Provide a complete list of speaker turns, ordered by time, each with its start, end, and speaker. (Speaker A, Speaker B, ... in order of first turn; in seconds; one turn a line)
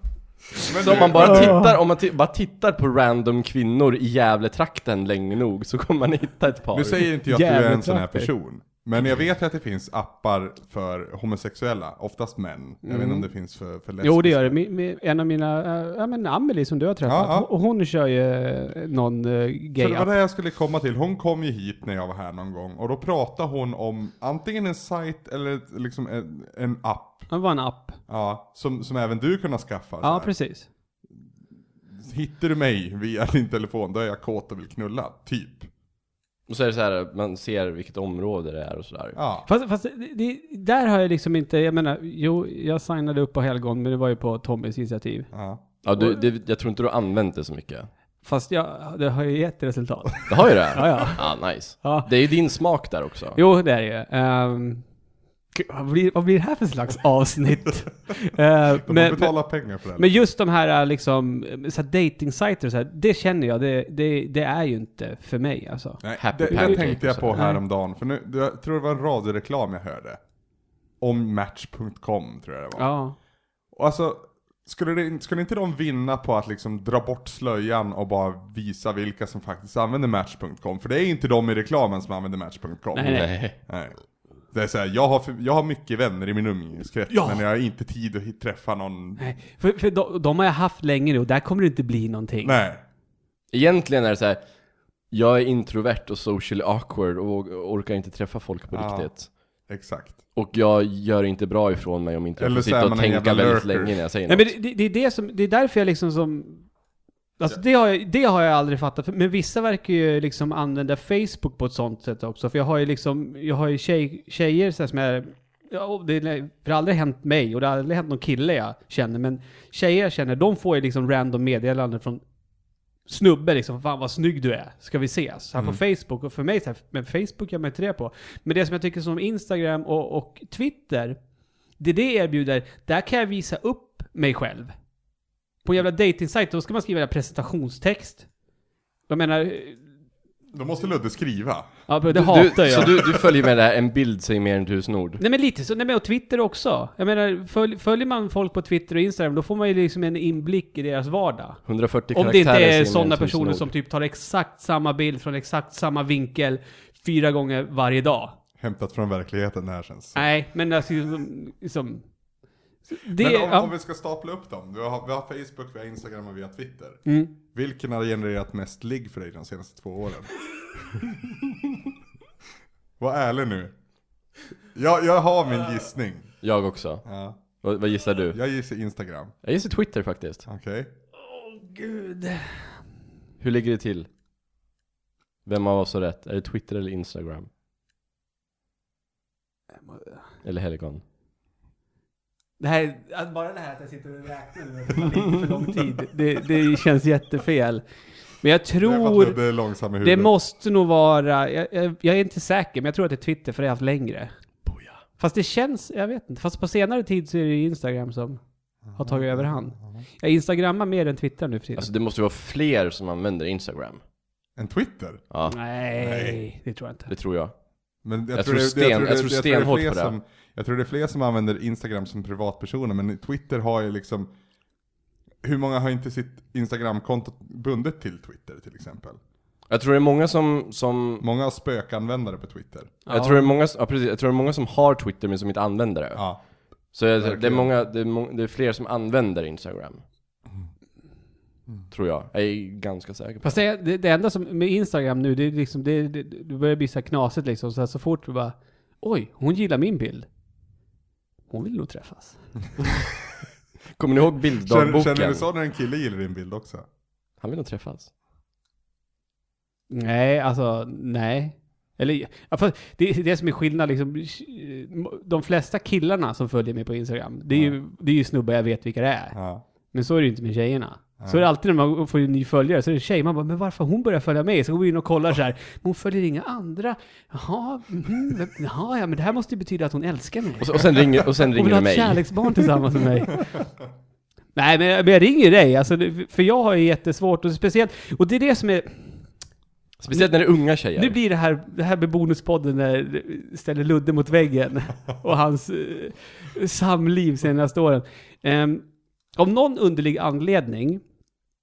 Speaker A: 0.6-1.6
Speaker B: 0.7-7.1
Speaker C: 1.1-1.8
Speaker A: 6.7-14.6
Speaker C: 7.3-8.3
Speaker C: 12.8-13.3
Speaker C: 14.0-20.1
Speaker A: 17.1-17.5
Speaker A: 19.8-27.3
Speaker C: 27.3-28.0
Speaker A: 28.1-30.3
Speaker C: 30.0-30.7
Speaker A: 31.9-35.7
Speaker B: 36.5-39.2
Speaker A: 39.1-39.5
Speaker C: 39.5-45.3
Speaker A: 45.3-45.6
Speaker B: 45.8-47.9
Speaker C: 48.2-52.1
Speaker B: 50.3-53.4
Speaker C: 53.4-54.9
Speaker C: 55.5-59.4
Speaker A: 58.8-60.1
Speaker C: 60.0-67.6
Speaker A: 66.0-70.2
Speaker B: 66.2-67.4
Speaker A: 71.0-72.9
Speaker C: 72.8-73.2
Speaker A: 73.7-84.0
Speaker C: 82.9-83.3
Speaker B: 83.0-83.6
Speaker A: 84.5-89.3
Speaker C: 87.1-87.4
Speaker C: 89.2-92.6
Speaker A: 92.4-92.8
Speaker B: 93.5-94.4
Speaker B: 95.1-99.3
Speaker A: 98.7-99.1
Speaker A: 99.7-100.2
Speaker B: 100.3-104.5
Speaker A: 102.4-104.0
Speaker C: 104.3-106.7
Speaker C: 107.4-122.2
Speaker C: 123.1-131.2
Speaker C: 131.8-134.7
Speaker C: 135.6-138.3
Speaker C: 139.1-139.8
Speaker A: 140.5-141.7
Speaker C: 141.9-143.2
Speaker B: 142.1-145.2
Speaker C: 145.2-151.6
Speaker B: 151.7-153.7
Speaker C: 152.1-158.4
Speaker A: 158.6-160.2
Speaker C: 160.2-162.1
Speaker C: 162.9-163.7
Speaker A: 163.2-171.1
Speaker C: 167.1-167.3
Speaker A: 173.0-173.7
Speaker A: 174.7-176.3
Speaker B: 176.4-177.1
Speaker A: 177.1-177.4
Speaker B: 177.6-178.4
Speaker A: 178.3-179.3
Speaker B: 179.4-180.5
Speaker A: 180.5-180.9
Speaker C: 181.2-182.8
Speaker B: 183.4-184.1
Speaker B: 185.5-187.5
Speaker C: 189.8-190.2
Speaker B: 190.4-191.0
Speaker C: 192.6-197.8
Speaker C: 198.4-199.4
Speaker A: 198.8-200.3
Speaker C: 200.0-204.3
Speaker B: 204.7-205.0
Speaker C: 205.2-208.4
Speaker A: 208.9-210.1
Speaker C: 208.9-211.9
Speaker B: 211.8-214.0
Speaker A: 214.6-215.2
Speaker B: 215.3-215.6
Speaker C: 215.5-217.1
Speaker A: 216.0-216.4
Speaker B: 217.1-217.5
Speaker A: 218.0-224.3
Speaker B: 218.3-220.1
Speaker A: 225.4-229.2
Speaker B: 229.7-231.2
Speaker A: 231.2-233.0
Speaker C: 233.1-233.6
Speaker B: 233.1-236.3
Speaker A: 236.2-236.4
Speaker B: 236.9-240.0
Speaker A: 237.2-237.7
Speaker B: 241.9-243.6
Speaker C: 243.4-250.3
Speaker C: 251.5-252.4
Speaker B: 254.0-255.5
Speaker A: 254.6-256.9
Speaker B: 257.4-258.1
Speaker C: 259.9-269.4
Speaker A: 267.5-267.8
Speaker A: 269.3-269.6
Speaker C: 269.9-283.6
Speaker A: 271.2-271.5
Speaker B: 280.6-282.7
Speaker C: 284.6-289.3
Speaker B: 290.0-291.2
Speaker C: 291.0-301.0